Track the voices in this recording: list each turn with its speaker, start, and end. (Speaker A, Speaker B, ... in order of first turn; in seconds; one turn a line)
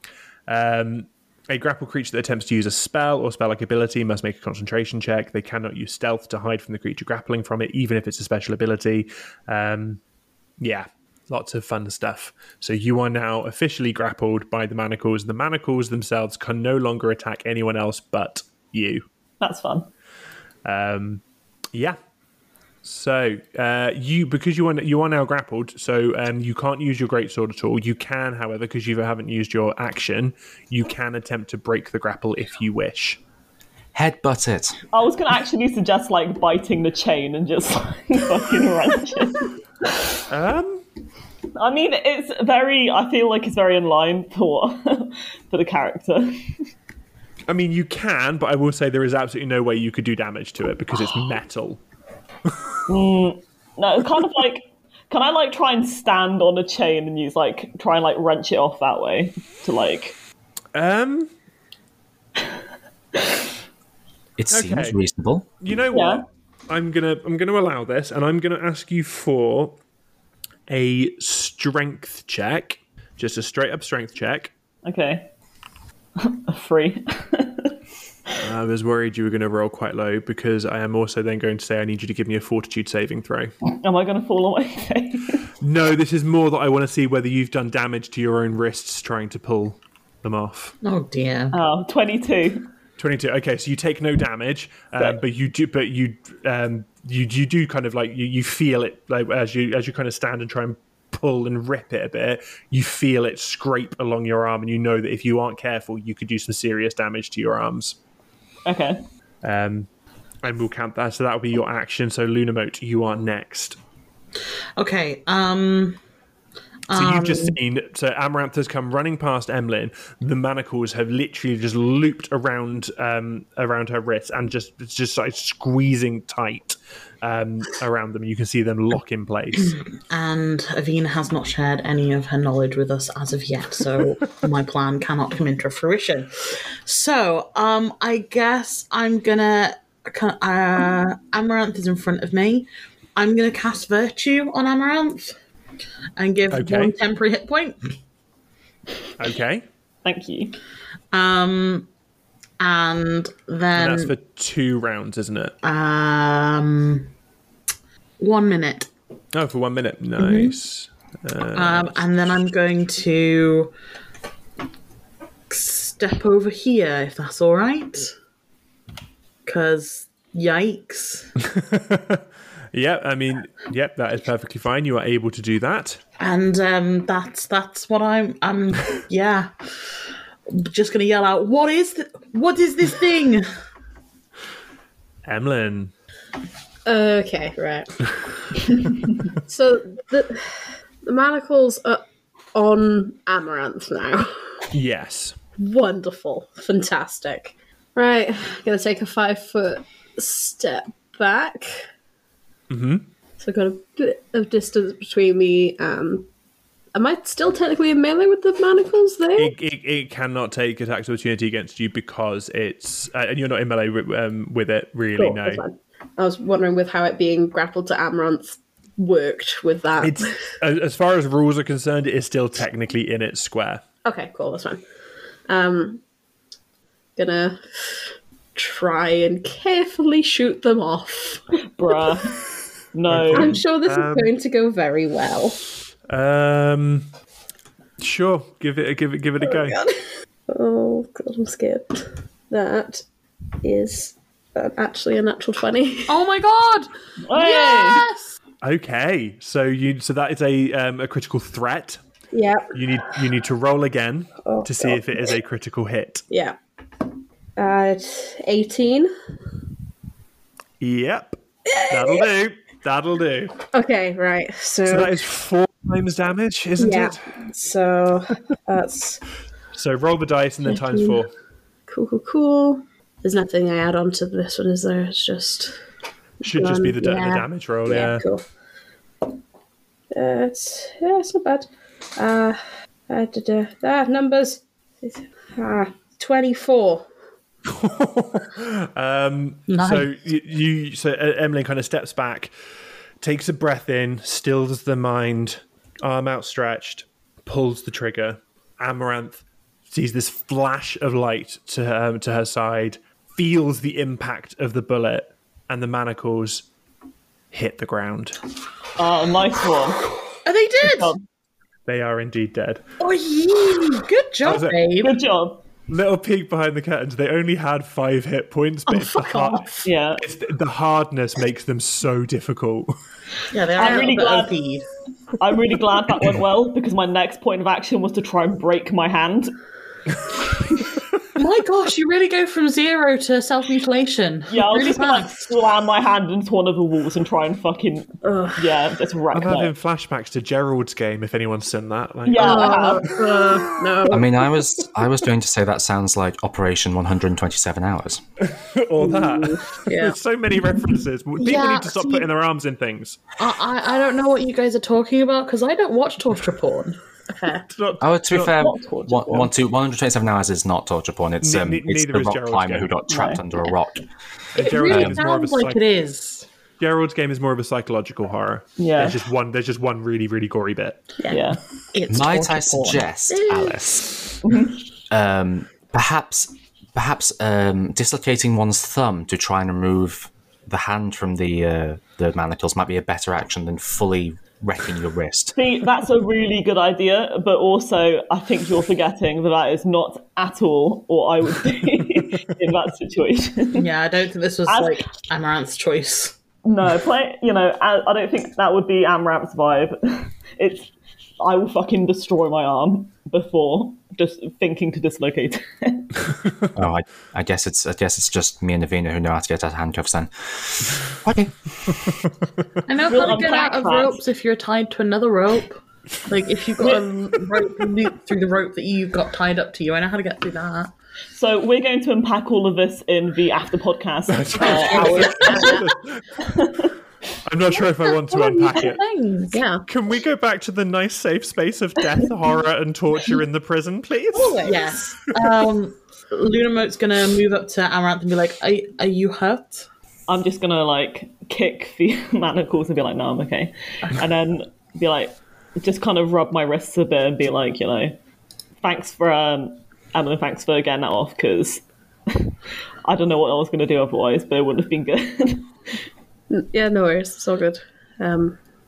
Speaker A: 0.5-10.0
Speaker A: 10.6-19.0
Speaker B: 19.4-19.9
Speaker A: 20.6-21.2
Speaker A: 22.8-33.2
Speaker C: 33.9-34.8
Speaker B: 34.9-39.5
Speaker A: 40.3-40.8
Speaker B: 41.5-46.6
Speaker A: 47.5-51.8
Speaker B: 52.9-60.1
Speaker A: 60.7-61.3
Speaker C: 64.4-65.5
Speaker A: 64.5-65.0
Speaker A: 65.6-69.8
Speaker B: 65.9-66.2
Speaker A: 70.7-74.5
Speaker B: 74.8-75.3
Speaker B: 76.2-77.8
Speaker A: 78.4-83.5
Speaker B: 83.6-85.5
Speaker A: 85.6-90.7
Speaker D: 90.8-91.5
Speaker B: 91.5-92.7
Speaker A: 93.0-108.0
Speaker B: 108.7-109.0
Speaker A: 109.4-109.9
Speaker A: 110.4-113.8
Speaker D: 114.8-116.0
Speaker D: 116.9-117.5
Speaker A: 116.9-129.8
Speaker D: 130.1-145.3
Speaker D: 146.2-147.9
Speaker A: 146.5-146.9
Speaker A: 149.2-149.6
Speaker B: 150.0-150.6
Speaker D: 151.1-151.9
Speaker D: 152.6-154.1
Speaker A: 153.7-155.6
Speaker D: 155.6-157.1
Speaker D: 158.2-158.9
Speaker A: 159.3-162.0
Speaker D: 160.2-160.5
Speaker D: 161.6-163.7
Speaker D: 165.5-168.1
Speaker D: 169.4-171.3
Speaker A: 171.4-176.0
Speaker D: 176.2-179.5
Speaker D: 180.5-183.4
Speaker A: 185.2-185.9
Speaker E: 186.8-192.0
Speaker E: 192.5-194.3
Speaker A: 194.7-195.3
Speaker E: 195.6-201.8
Speaker A: 202.7-203.1
Speaker E: 203.4-206.3
Speaker E: 206.9-209.5
Speaker A: 209.3-215.6
Speaker E: 215.2-220.3
Speaker A: 220.0-223.8
Speaker E: 224.0-224.8
Speaker E: 225.5-226.0
Speaker E: 227.2-228.0
Speaker E: 228.5-232.2
Speaker B: 231.7-232.4
Speaker B: 232.9-233.6
Speaker A: 233.1-234.3
Speaker E: 233.3-235.6
Speaker A: 236.1-237.1
Speaker A: 238.0-239.8
Speaker E: 239.4-243.0
Speaker E: 243.6-246.2
Speaker D: 246.1-248.3
Speaker B: 247.2-248.1
Speaker A: 248.6-252.0
Speaker E: 252.3-252.7
Speaker A: 252.7-256.2
Speaker E: 254.4-255.2
Speaker E: 256.3-256.6
Speaker E: 257.6-259.1
Speaker A: 260.8-263.6
Speaker E: 261.7-262.2
Speaker E: 263.7-265.1
Speaker A: 264.9-267.3
Speaker E: 266.8-269.2
Speaker A: 269.7-271.3
Speaker E: 270.7-271.2
Speaker E: 271.9-275.8
Speaker A: 276.4-278.2
Speaker E: 276.4-278.4
Speaker E: 280.1-287.1
Speaker A: 287.7-292.5
Speaker D: 289.7-290.1
Speaker A: 293.2-306.6
Speaker A: 307.5-308.4
Speaker B: 309.0-310.1
Speaker D: 310.4-311.1
Speaker B: 310.8-311.2
Speaker A: 311.9-312.8
Speaker D: 313.0-315.1
Speaker A: 314.4-314.8
Speaker B: 315.0-315.6
Speaker A: 315.9-322.9
Speaker D: 318.9-319.7
Speaker B: 319.8-320.2
Speaker D: 323.5-324.9
Speaker B: 323.7-324.5
Speaker B: 325.4-329.6
Speaker B: 330.3-330.9
Speaker D: 331.4-335.4
Speaker B: 334.5-339.7
Speaker E: 338.2-338.8
Speaker A: 339.3-343.9
Speaker B: 342.3-343.1
Speaker E: 342.4-344.4
Speaker C: 344.1-348.2
Speaker A: 348.4-353.2
Speaker E: 349.0-350.1
Speaker D: 351.4-352.2
Speaker D: 353.4-357.0
Speaker E: 357.3-357.6
Speaker A: 357.7-358.6
Speaker C: 358.0-364.1
Speaker B: 358.5-359.5
Speaker A: 361.4-362.9
Speaker B: 363.1-363.4
Speaker A: 364.5-365.9
Speaker D: 364.6-366.4
Speaker C: 364.8-365.2
Speaker A: 366.8-371.0
Speaker B: 368.8-369.2
Speaker D: 371.2-373.8
Speaker B: 371.3-371.6
Speaker C: 372.1-374.2
Speaker B: 374.4-374.8
Speaker C: 375.1-385.6
Speaker B: 385.6-393.9
Speaker D: 393.7-396.4
Speaker B: 394.7-395.0
Speaker B: 396.6-406.3
Speaker C: 406.7-412.1
Speaker D: 412.9-420.9
Speaker B: 413.0-414.2
Speaker B: 421.3-425.9
Speaker A: 424.3-426.3
Speaker D: 424.6-425.8
Speaker E: 425.3-425.8
Speaker B: 426.4-426.9
Speaker A: 427.4-429.0
Speaker D: 428.0-429.6
Speaker E: 429.5-429.8
Speaker A: 429.9-434.7
Speaker E: 434.4-434.8
Speaker D: 434.5-439.9
Speaker B: 440.3-448.1
Speaker B: 448.8-455.9
Speaker E: 456.5-458.6